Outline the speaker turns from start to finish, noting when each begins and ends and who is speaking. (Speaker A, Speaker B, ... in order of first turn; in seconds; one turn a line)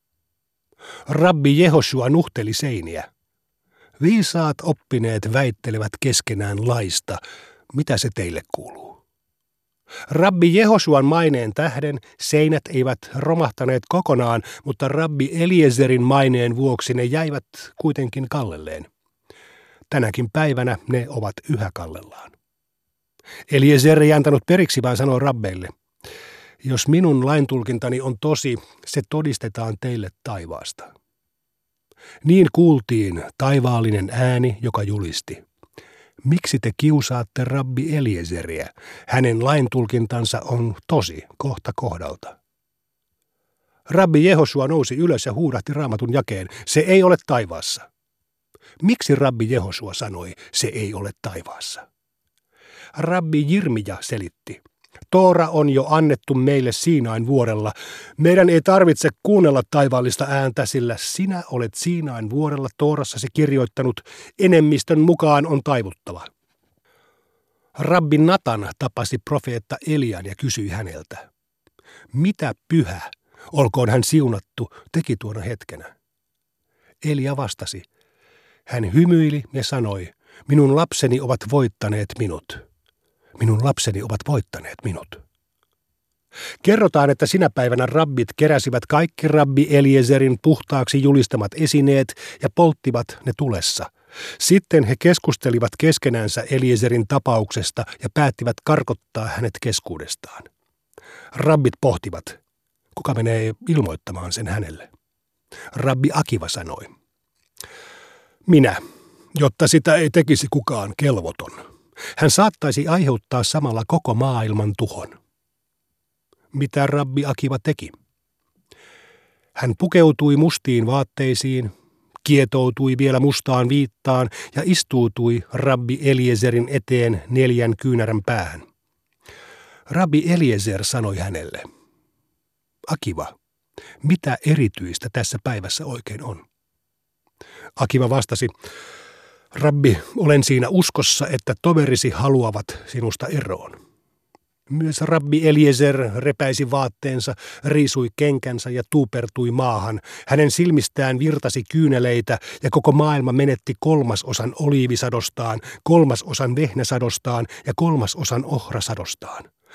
Speaker A: 1.1-3.1
Speaker A: 4.0-7.2
Speaker A: 7.7-9.0
Speaker A: 10.1-18.9
Speaker A: 19.9-22.3
Speaker A: 23.5-25.7
Speaker A: 26.6-30.9
Speaker A: 32.2-35.4
Speaker A: 36.2-42.4
Speaker A: 43.9-47.9
Speaker A: 48.8-51.8
Speaker A: 52.9-66.3
Speaker A: 67.8-71.2
Speaker A: 72.1-75.9
Speaker A: 77.0-77.8
Speaker A: 78.7-82.6
Speaker A: 83.4-85.2
Speaker A: 86.6-100.5
Speaker A: 101.3-102.4
Speaker A: 103.0-104.9
Speaker A: 105.7-106.9
Speaker A: 108.5-108.8
Speaker A: 109.3-111.6
Speaker A: 112.2-115.2
Speaker A: 116.5-117.9
Speaker A: 119.5-121.7
Speaker A: 122.2-128.6
Speaker A: 129.9-131.7
Speaker A: 132.9-133.3
Speaker A: 134.0-136.4
Speaker A: 137.8-138.5
Speaker A: 139.5-143.8
Speaker A: 144.7-159.5